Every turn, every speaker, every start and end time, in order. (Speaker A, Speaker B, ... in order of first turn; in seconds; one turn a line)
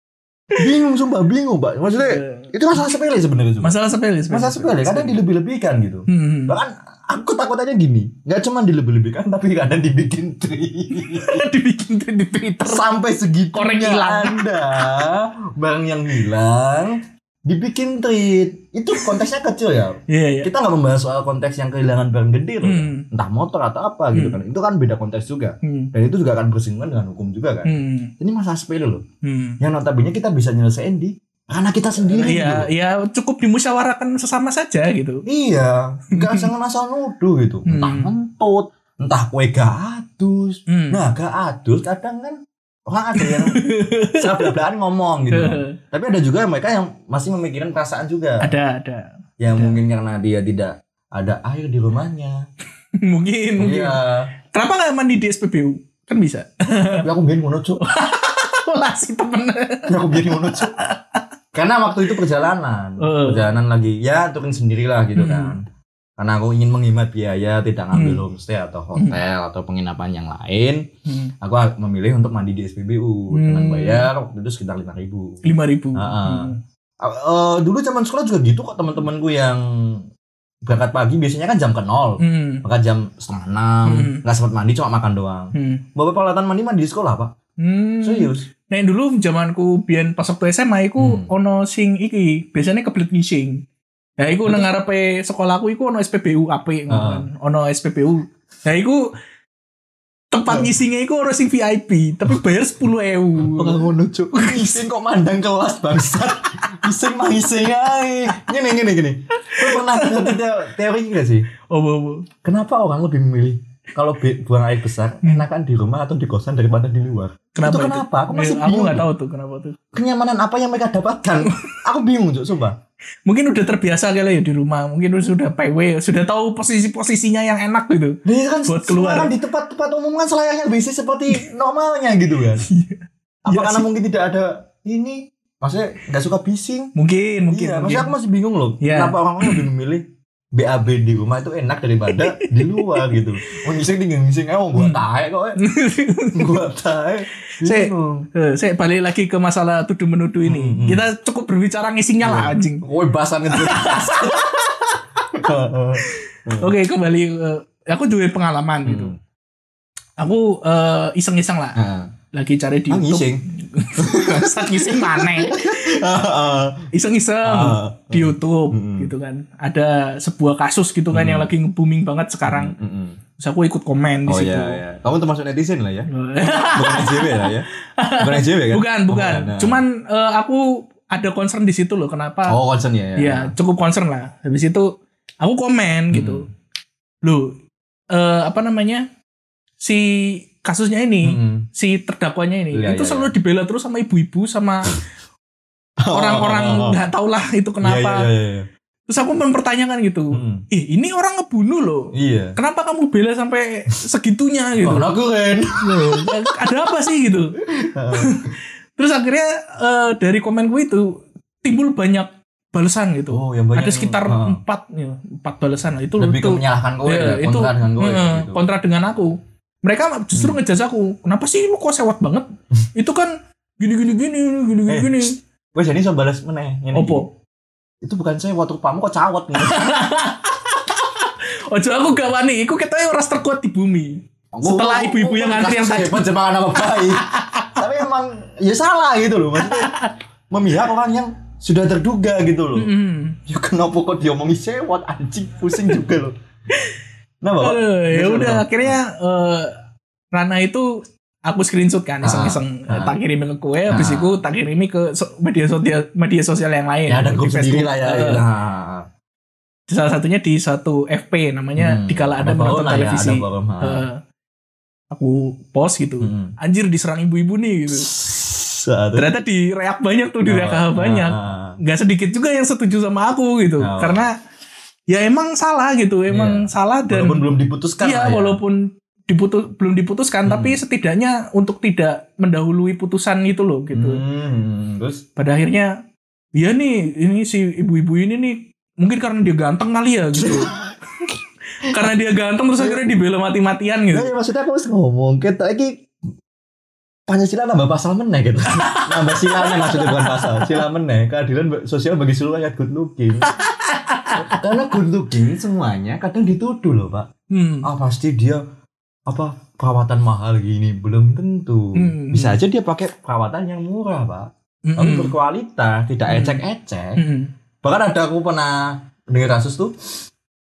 Speaker A: 0.5-3.7
Speaker B: 1.9-2.5
Speaker B: 3.6-5.2
Speaker A: 4.3-11.5
Speaker B: 6.1-6.6
Speaker B: 11.0-12.8
Speaker A: 12.6-29.0
Speaker B: 13.5-14.9
Speaker B: 20.1-20.5
Speaker B: 22.6-23.1
Speaker B: 24.1-24.4
Speaker B: 25.6-25.9
Speaker B: 27.6-28.1
Speaker B: 29.2-29.6
Speaker A: 29.6-32.7
Speaker B: 32.0-35.2
Speaker A: 35.3-48.5
Speaker B: 36.1-36.5
Speaker B: 37.6-38.1
Speaker B: 40.7-41.0
Speaker B: 43.2-44.5
Speaker B: 45.3-45.8
Speaker B: 48.4-49.8
Speaker A: 49.4-52.4
Speaker B: 53.0-54.0
Speaker A: 53.6-54.3
Speaker B: 54.5-57.1
Speaker A: 57.0-57.9
Speaker B: 57.8-61.2
Speaker A: 59.9-60.8
Speaker A: 61.5-65.6
Speaker B: 63.0-63.5
Speaker B: 65.2-65.5
Speaker A: 66.2-70.9
Speaker B: 67.9-68.2
Speaker B: 71.0-71.3
Speaker A: 71.4-75.4
Speaker B: 73.3-74.1
Speaker B: 75.4-76.6
Speaker A: 76.0-80.0
Speaker A: 80.6-87.3
Speaker B: 82.2-82.6
Speaker B: 83.8-84.2
Speaker B: 85.5-85.8
Speaker B: 87.6-93.6
Speaker A: 88.0-88.5
Speaker A: 91.0-91.3
Speaker B: 94.2-99.1
Speaker A: 96.9-97.3
Speaker B: 100.3-104.8
Speaker A: 100.5-100.7
Speaker A: 103.4-111.5
Speaker B: 109.4-110.4
Speaker B: 111.7-112.3
Speaker A: 112.4-119.0
Speaker B: 117.5-119.8
Speaker A: 119.9-122.8
Speaker B: 121.5-121.8
Speaker B: 123.2-129.3
Speaker A: 128.2-132.7
Speaker B: 132.7-133.9
Speaker A: 133.4-136.9
Speaker B: 136.9-138.1
Speaker A: 137.5-145.6
Speaker B: 138.8-139.6
Speaker B: 142.1-143.2
Speaker B: 144.7-145.0
Speaker B: 145.6-146.6
Speaker A: 146.3-148.3
Speaker B: 147.6-152.8
Speaker A: 150.4-151.1
Speaker A: 152.2-154.7
Speaker B: 153.5-154.8
Speaker A: 155.3-156.7
Speaker B: 156.1-159.1
Speaker A: 158.8-159.2
Speaker B: 160.2-161.8
Speaker A: 161.8-162.1
Speaker B: 162.3-166.0
Speaker A: 162.9-163.4
Speaker A: 163.9-166.9
Speaker B: 166.9-172.7
Speaker A: 167.4-169.1
Speaker A: 171.1-171.5
Speaker A: 172.4-173.2
Speaker B: 173.4-174.8
Speaker A: 174.3-179.8
Speaker B: 176.1-182.6
Speaker A: 182.5-183.5
Speaker B: 183.2-186.5
Speaker A: 186.1-186.5
Speaker B: 187.2-187.6
Speaker B: 188.1-189.1
Speaker B: 189.8-195.0
Speaker A: 191.2-191.7
Speaker A: 192.7-193.3
Speaker A: 196.0-197.0
Speaker B: 196.1-198.3
Speaker A: 197.8-198.7
Speaker B: 199.1-205.1
Speaker A: 200.3-200.6
Speaker A: 202.1-202.6
Speaker A: 204.8-206.4
Speaker B: 205.8-207.6
Speaker A: 207.6-208.6
Speaker B: 208.1-225.3
Speaker A: 213.3-214.6
Speaker A: 216.2-218.6
Speaker A: 220.3-220.6
Speaker A: 224.9-227.2
Speaker B: 226.9-227.3
Speaker A: 228.0-229.9
Speaker B: 229.6-236.2
Speaker A: 234.5-239.9
Speaker B: 237.1-237.8
Speaker B: 239.6-240.2
Speaker A: 240.5-242.9
Speaker B: 242.8-243.4
Speaker A: 243.5-246.3
Speaker B: 246.7-247.0
Speaker A: 247.4-249.0
Speaker B: 247.6-249.8
Speaker B: 250.3-258.4
Speaker A: 252.2-253.2
Speaker A: 253.9-254.4
Speaker A: 257.1-259.1
Speaker B: 259.9-264.2
Speaker A: 261.8-264.1
Speaker B: 265.1-268.1
Speaker A: 266.2-266.5
Speaker A: 267.9-269.3
Speaker B: 269.1-274.3
Speaker A: 270.4-271.8
Speaker A: 273.8-274.2
Speaker B: 275.1-277.4
Speaker A: 276.3-278.6
Speaker B: 278.0-284.2
Speaker A: 280.4-280.8
Speaker A: 283.9-285.2
Speaker B: 285.4-285.9
Speaker B: 286.5-290.7
Speaker A: 290.3-290.9
Speaker B: 291.8-294.3
Speaker A: 292.8-293.1
Speaker A: 294.1-296.0
Speaker A: 297.3-303.6
Speaker B: 298.7-300.8
Speaker B: 303.4-304.7
Speaker A: 304.3-307.3
Speaker B: 307.5-307.9
Speaker A: 307.8-308.6
Speaker A: 309.3-317.2
Speaker B: 311.9-312.6
Speaker B: 314.9-315.3
Speaker B: 316.3-316.6
Speaker B: 317.2-317.5
Speaker A: 317.8-319.9